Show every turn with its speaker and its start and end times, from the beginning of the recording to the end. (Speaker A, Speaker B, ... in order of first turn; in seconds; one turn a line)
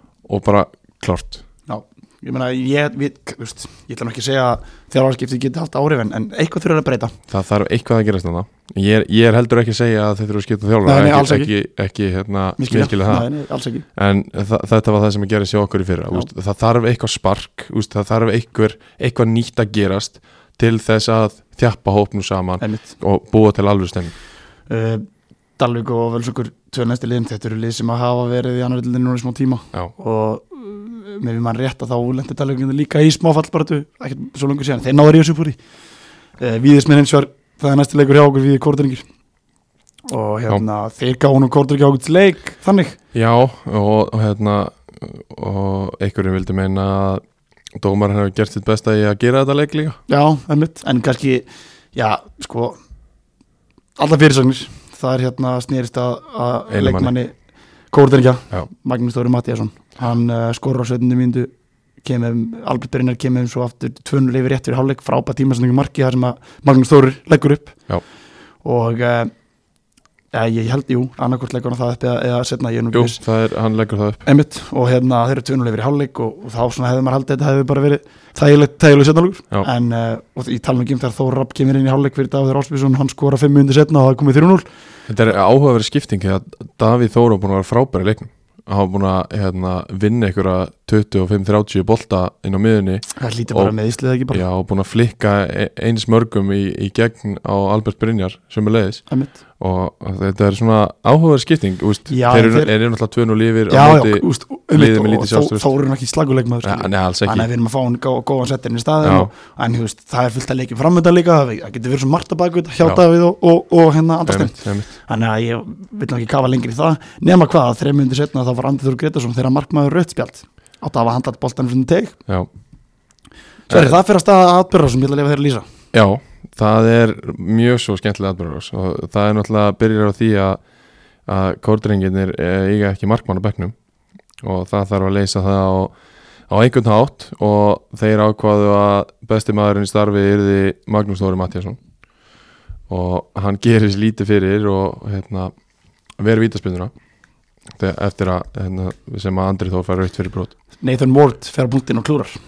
Speaker A: 0.2-1.4
Speaker B: 1.7-7.2
Speaker A: 7.3-13.3
Speaker B: 10.8-11.5
Speaker B: 12.6-13.8
Speaker A: 13.9-24.1
Speaker B: 22.6-22.9
Speaker B: 24.7-25.1
Speaker B: 25.6-35.6
Speaker B: 36.4-39.0
Speaker B: 40.1-43.0
Speaker A: 43.1-47.2
Speaker A: 47.7-50.0
Speaker B: 50.1-52.8
Speaker B: 54.0-57.3
Speaker A: 56.7-57.1
Speaker B: 57.9-61.5
Speaker B: 62.0-67.8
Speaker B: 68.6-69.3
Speaker B: 70.3-73.2
Speaker A: 72.9-74.2
Speaker B: 74.2-84.7
Speaker A: 85.1-93.7
Speaker B: 93.2-94.4
Speaker A: 94.3-105.7
Speaker B: 99.1-99.4
Speaker B: 102.1-102.7
Speaker B: 103.7-122.2
Speaker A: 106.6-107.5
Speaker A: 109.0-109.3
Speaker A: 114.2-114.9
Speaker B: 123.7-125.6
Speaker A: 123.7-124.0
Speaker A: 125.9-130.6
Speaker A: 131.2-133.7
Speaker A: 134.4-135.9
Speaker A: 136.5-141.8
Speaker A: 142.9-145.5
Speaker A: 146.2-146.9
Speaker A: 147.8-150.5
Speaker B: 150.8-152.4